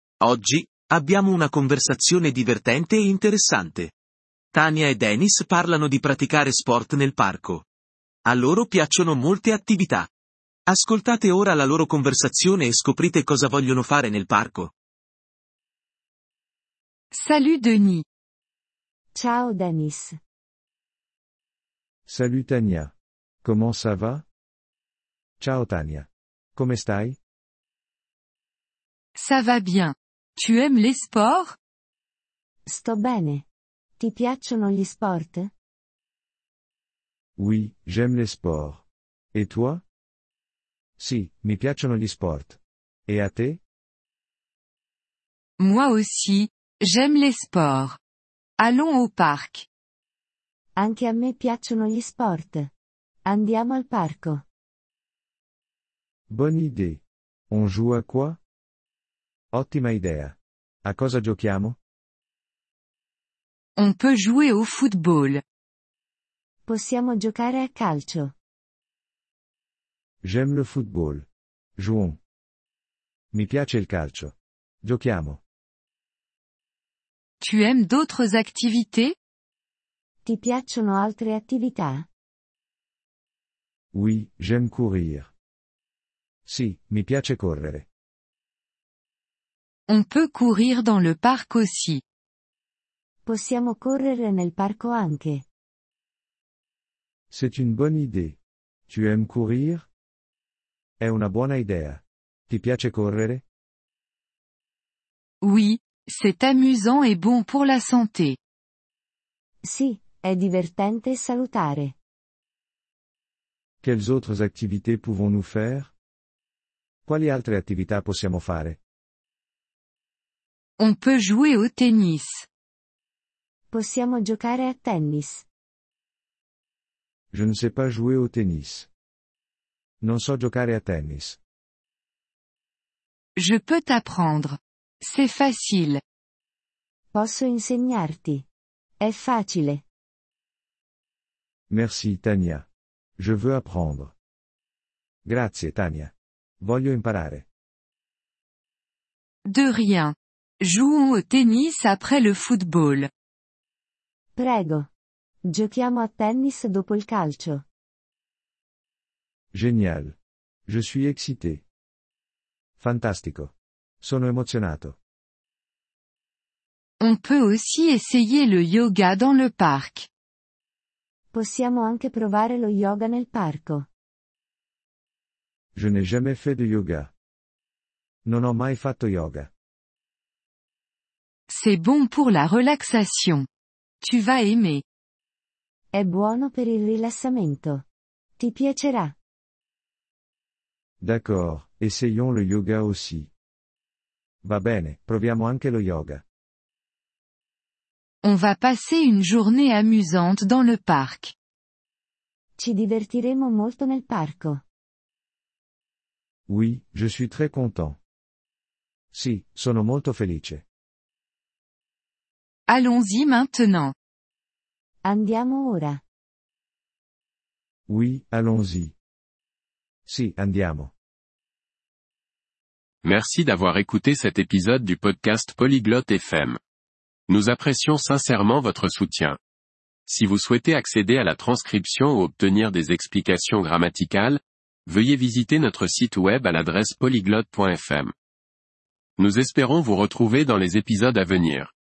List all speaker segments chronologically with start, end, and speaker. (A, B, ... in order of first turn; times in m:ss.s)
0:00.2-0:03.9 A
0:04.5-0:07.6 A
0:08.2-0:10.1 A
0:10.7-0:14.7 A
0:17.1-0:18.0 B
0:19.1-0:20.2 C
0:22.1-0:24.2 D
0:25.4-0:27.2 D
0:29.1-0:31.6 B
0:32.7-0:33.4 C
0:34.0-0:35.5 C
0:37.4-0:39.8 D
0:41.0-0:43.6 D
0:45.6-0:48.0 B
0:48.6-0:49.7 B
0:50.8-0:52.7 C
0:53.2-0:54.4 C
0:56.3-0:58.4 D
0:59.5-1:01.8 D
1:03.8-1:05.4 B
1:06.7-1:08.3 C
1:10.2-1:12.2 D
1:13.3-1:15.4 D
1:17.4-1:19.2 B
1:20.2-1:22.1 C
1:23.9-1:25.3 D
1:26.4-1:27.9 D
1:29.9-1:32.0 B
1:33.2-1:35.4 C
1:37.3-1:39.8 D
1:41.0-1:43.4 D
1:45.4-1:48.4 B
1:49.6-1:52.0 C
1:53.8-1:55.9 D
1:57.0-1:58.8 D
2:00.8-2:02.5 B
2:03.7-2:05.4 C
2:07.3-2:08.9 D
2:10.0-2:11.4 D
2:13.4-2:16.0 B
2:17.1-2:18.4 C
2:19.0-2:19.8 C
2:21.7-2:22.6 D
2:23.2-2:24.1 D
2:25.2-2:27.4 D
2:29.4-2:33.1 B
2:34.4-2:34.9 C
2:35.5-2:37.6 C
2:39.5-2:41.6 D
2:42.8-2:45.0 D
2:47.0-2:50.1 B
2:51.3-2:53.9 C
2:55.7-2:57.1 D
2:58.2-2:59.5 D
3:01.5-3:03.5 B
3:04.0-3:04.8 B
3:05.9-3:07.8 C
3:08.4-3:09.1 C
3:11.0-3:13.3 D
3:14.4-3:16.2 D
3:18.2-3:21.3 B
3:22.6-3:24.6 C
3:26.5-3:28.0 D
3:29.1-3:30.6 D
3:32.7-3:33.9 B
3:35.0-3:36.0 C
3:37.9-3:38.9 D
3:40.0-3:40.9 D
3:43.0-3:46.6 E
3:47.3-3:49.4 E
3:50.1-3:58.1 E
3:59.2-4:01.7 E